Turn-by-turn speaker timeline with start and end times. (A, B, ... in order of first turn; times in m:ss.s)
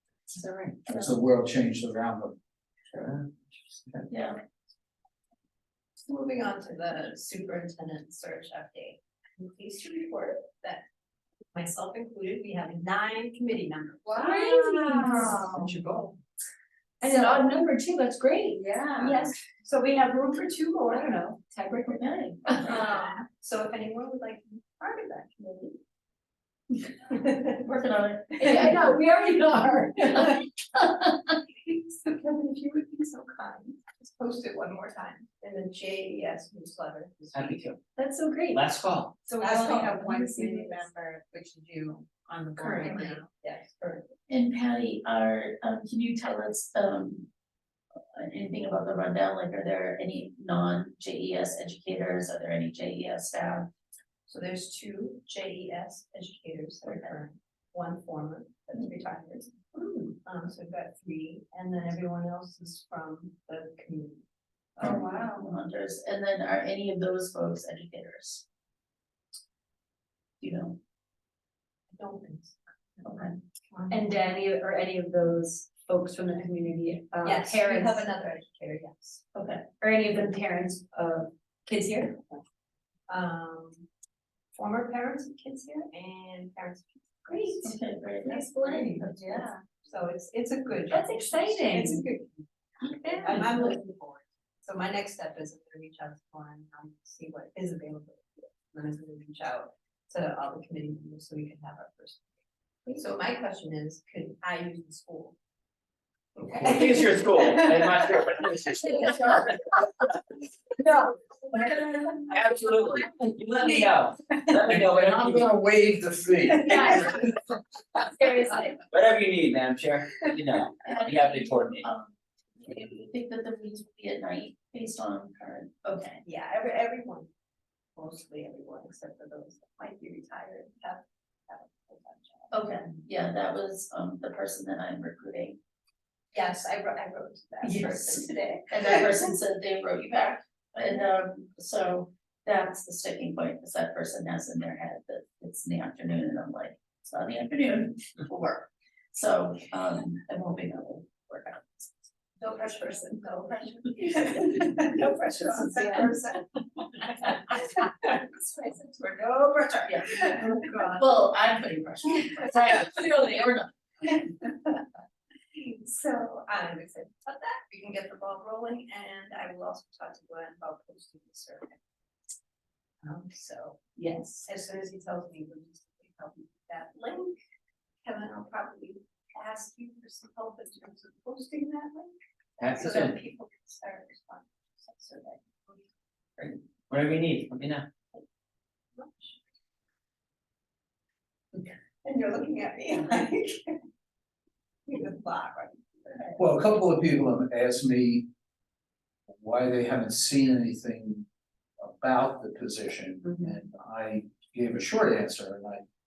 0:00.4-0:01.2 A
0:00.9-0:02.4 B
0:03.0-0:04.1 C
0:04.1-0:04.4 A
0:06.1-0:10.8 D
0:11.5-0:16.1 D
0:14.1-0:15.7 E
0:17.0-0:19.3 E
0:17.0-0:17.4 A
0:19.0-0:21.2 D
0:19.9-0:23.1 E
0:21.9-0:22.8 A
0:22.6-0:25.8 D
0:27.0-0:29.0 D
0:27.7-0:29.0 A
0:28.4-0:30.4 E
0:31.5-0:37.7 D
0:37.3-0:37.8 C
0:38.0-0:38.7 E
0:38.5-0:39.1 C
0:39.3-0:40.9 D
0:39.4-0:43.2 E
0:42.6-0:44.1 D
0:44.3-0:47.3 A
0:48.1-0:53.7 A
0:54.3-1:04.2 D
1:04.8-1:08.4 A
1:10.4-1:10.8 A
1:11.9-1:14.0 D
1:13.0-1:13.3 A
1:13.9-1:18.0 E
1:17.2-1:19.2 D
1:19.3-1:19.6 A
1:19.8-1:22.4 E
1:23.1-1:23.8 D
1:24.6-1:42.4 D
1:27.6-1:29.5 A
1:30.9-1:32.0 E
1:33.0-1:33.7 E
1:42.9-1:45.4 D
1:46.4-1:48.1 D
1:46.5-1:49.5 C
1:52.3-1:55.5 C
1:54.7-1:57.3 B
1:56.6-1:57.1 E
1:56.7-1:57.0 D
1:58.0-1:58.8 E
1:58.9-2:01.9 C
2:00.8-2:06.2 A
2:06.2-2:07.3 D
2:07.9-2:12.8 D
2:12.5-2:15.6 A
2:16.3-2:19.2 D
2:17.6-2:32.0 A
2:32.4-2:36.4 D
2:33.5-2:34.3 A
2:35.7-2:36.1 E
2:37.0-2:41.0 D
2:39.8-2:43.7 A
2:44.4-2:44.7 D
2:45.5-2:51.8 D
2:53.0-2:53.9 D
2:54.0-2:54.5 E
2:54.4-2:57.4 D
2:58.0-3:02.1 D
3:02.6-3:03.2 C
3:02.7-3:05.8 D
3:06.9-3:07.8 C
3:09.0-3:09.4 D
3:11.6-3:13.8 D
3:14.9-3:16.4 D
3:16.4-3:18.3 B
3:19.4-3:21.2 B
3:21.8-3:25.8 B